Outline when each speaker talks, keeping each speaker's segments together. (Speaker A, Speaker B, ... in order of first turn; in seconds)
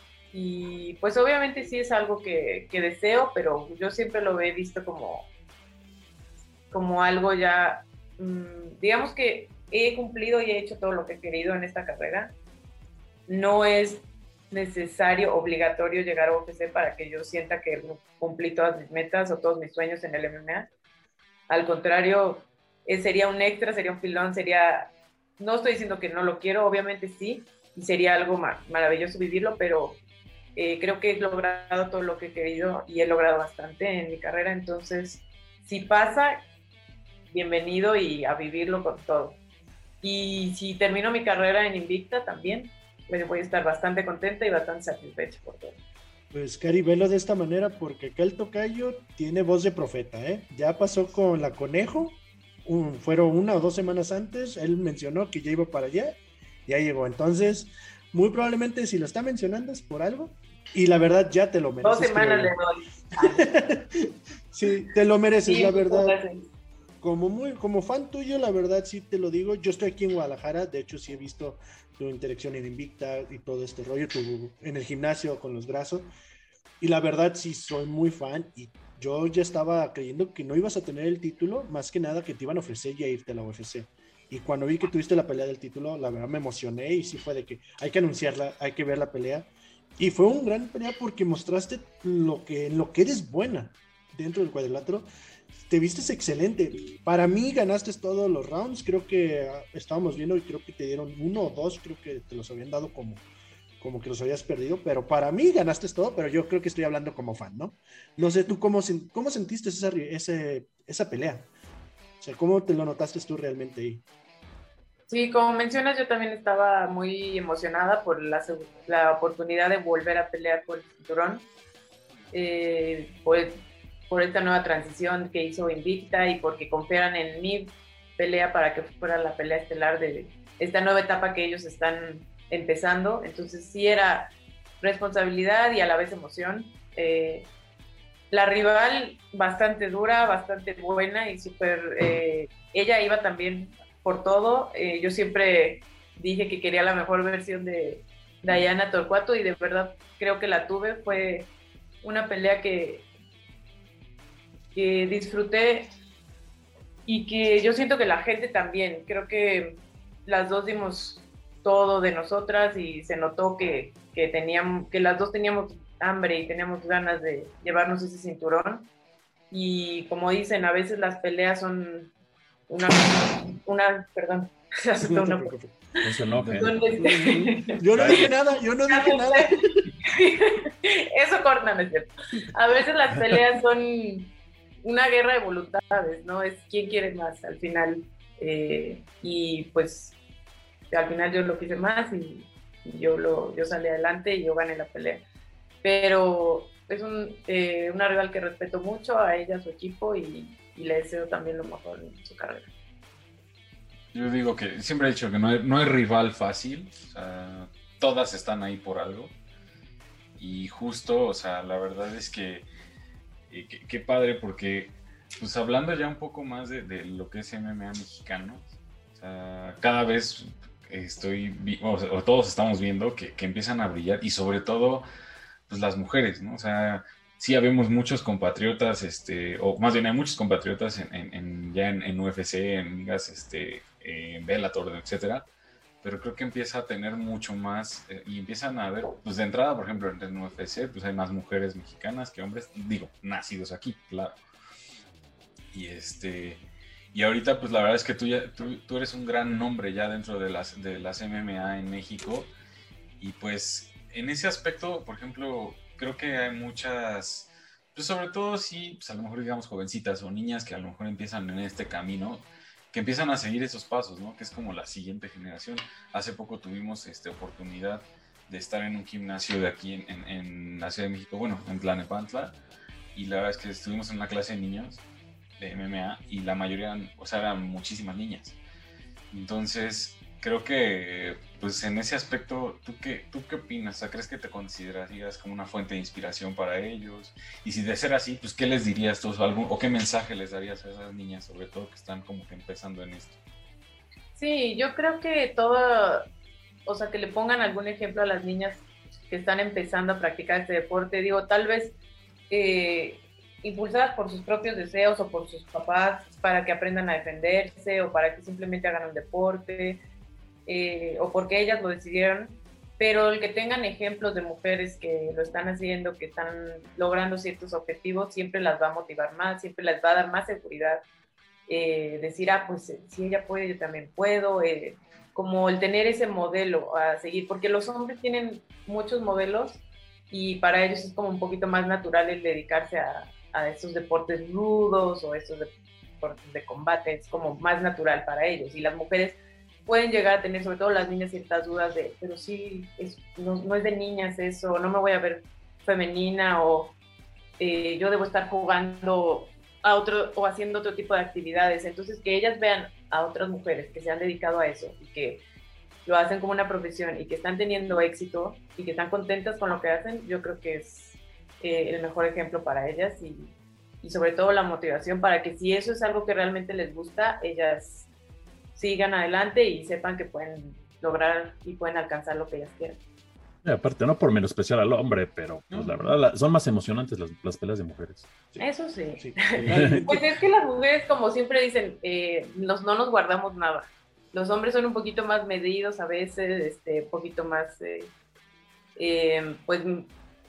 Speaker A: 0.3-5.3, 6.7-12.3, 13.3-20.7, 21.5-30.0, 30.6-36.4, 37.3-39.4, 40.0-45.8, 61.8-63.5, 65.4-66.5, 115.1-121.4, 122.3-137.5, 138.3-151.5, 152.0-153.1, 154.7-155.9, 157.1-168.9, 169.5-172.1, 172.7-176.0, 176.6-178.3, 178.9-179.5, 180.0-184.3, 184.8-190.2, 190.9-195.2, 195.8-202.7, 294.4-296.2, 296.9-301.9, 302.5-310.0, 310.7-321.0, 321.7-346.9, 347.6-355.4, 356.0-368.1, 368.8-373.0, 378.6-388.1, 388.9-390.1
Speaker B: 46.3-62.5, 63.2-63.9, 64.5-66.2, 67.0-76.1, 76.8-95.1, 95.7-103.2, 103.8-111.5, 112.2-114.0, 175.0-175.7, 176.9-179.8, 379.2-380.3
Speaker C: 176.0-176.8, 177.9-178.3, 373.6-378.3, 379.7-380.0
Speaker D: 176.3-176.8, 177.9-178.2, 204.1-209.3, 210.4-212.7, 213.5-225.1, 225.7-235.5, 236.0-244.4, 245.7-252.5, 253.2-272.6, 273.1-275.0, 275.6-278.6, 279.3-293.4